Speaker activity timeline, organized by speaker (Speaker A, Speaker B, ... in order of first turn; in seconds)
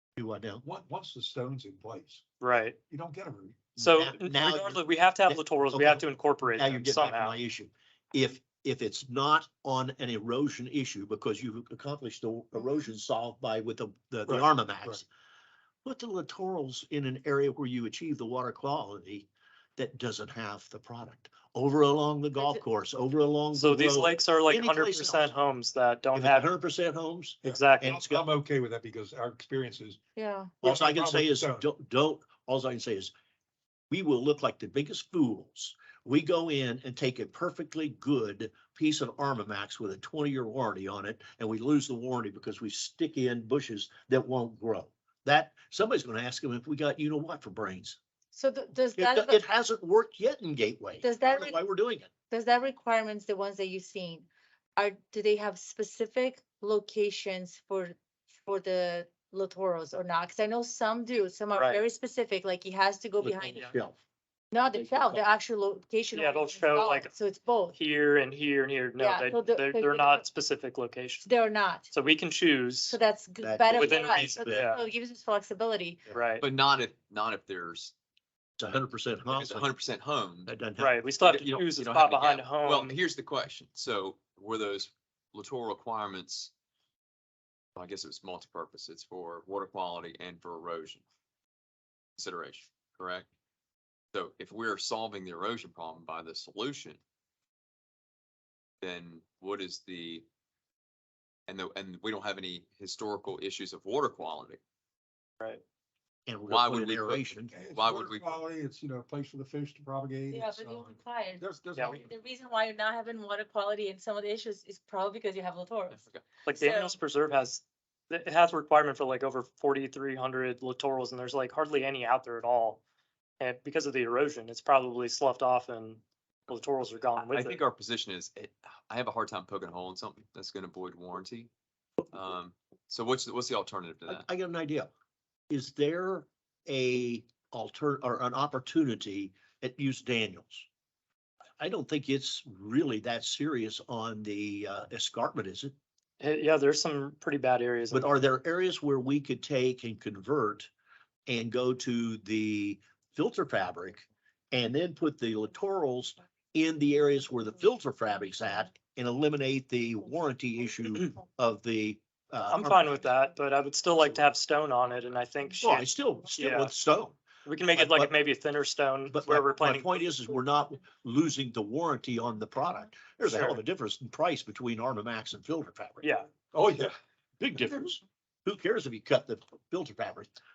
Speaker A: 0.1-0.6, 3.8-15.1, 15.8-25.3, 26.1-28.3, 30.6-33.1, 33.9-48.0, 49.0-52.1, 63.2-64.0, 64.7-65.2, 73.4-74.7, 78.6-79.7, 80.4-81.0, 106.3-107.5, 134.1-134.9, 135.5-140.7, 141.6-145.7, 147.9-150.7, 151.3-163.1, 165.6-167.2, 167.7-168.1, 169.1-176.1, 177.4-180.3
Speaker B: 0.6-2.2, 2.9-3.7, 14.3-15.0, 27.4-30.0, 30.6-31.6, 107.5-112.1, 176.5-176.9
Speaker C: 2.4-2.8, 3.8-7.4, 23.5-26.5, 27.4-28.0, 61.5-61.8, 66.1-67.1, 67.7-71.3, 71.9-73.0, 73.7-74.8, 76.1-76.4, 80.8-83.0, 116.4-122.8, 123.4-127.6, 146.2-148.2, 162.5-166.7, 167.4-170.1, 173.2-173.6, 176.0-176.3
Speaker D: 22.4-22.6, 30.1-30.6, 48.3-49.4, 51.0-51.6, 52.3-63.7, 64.5-67.8, 69.0-70.2, 71.2-71.9, 72.9-76.1, 110.3-117.0
Speaker E: 76.4-77.9, 79.3-80.5, 81.2-86.5, 87.8-91.0, 92.2-93.3, 94.1-97.0, 98.8-100.2, 101.5-104.6, 106.5-108.4, 115.9-116.2, 127.2-131.5, 132.1-134.3